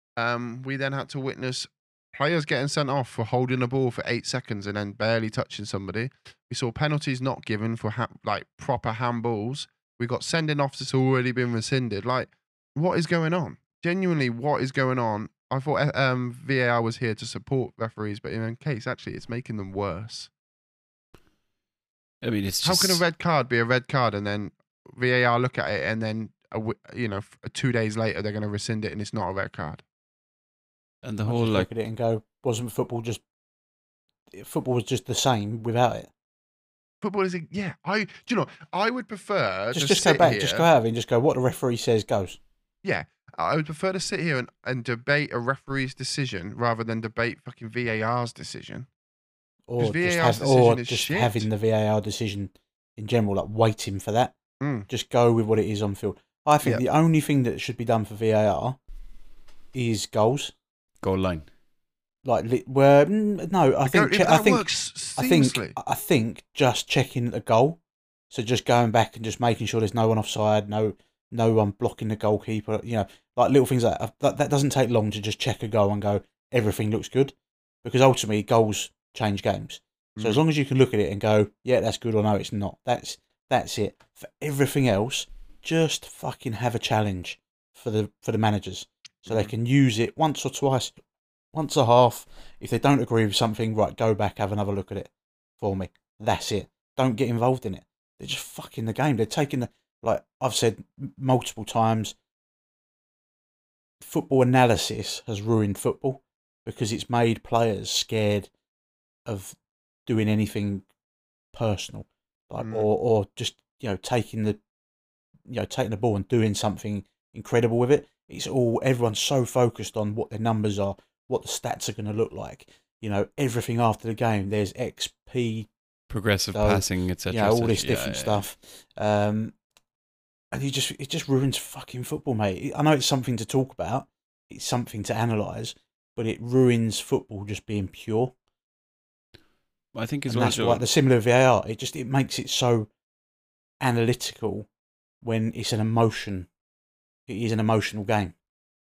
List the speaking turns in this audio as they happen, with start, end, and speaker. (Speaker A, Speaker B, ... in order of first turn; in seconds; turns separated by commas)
Speaker A: 0.1-20.3, Speaker B: 22.2-23.0, Speaker A: 22.6-29.8, Speaker B: 31.0-31.7, Speaker C: 31.3-33.2, Speaker C: 34.3-36.1, Speaker A: 37.0-40.7, Speaker C: 39.7-42.4, Speaker A: 42.8-48.9, Speaker C: 49.7-54.3, Speaker A: 49.8-51.5, Speaker A: 54.6-54.9, Speaker C: 54.9-58.8, Speaker C: 59.7-60.5, Speaker B: 61.0-61.5, Speaker C: 62.2-90.9, Speaker A: 63.9-65.8, Speaker A: 80.2-80.4, Speaker A: 89.2-89.5, Speaker C: 91.5-102.1, Speaker C: 104.0-108.5, Speaker C: 109.2-110.9, Speaker C: 111.5-114.6, Speaker A: 112.6-112.9, Speaker C: 115.5-125.7, Speaker B: 126.1-128.4, Speaker C: 126.5-129.6, Speaker C: 130.5-138.3, Speaker B: 139.9-140.8, Speaker C: 140.3-142.9, Speaker C: 143.8-144.7, Speaker C: 145.2-146.5, Speaker C: 147.3-148.3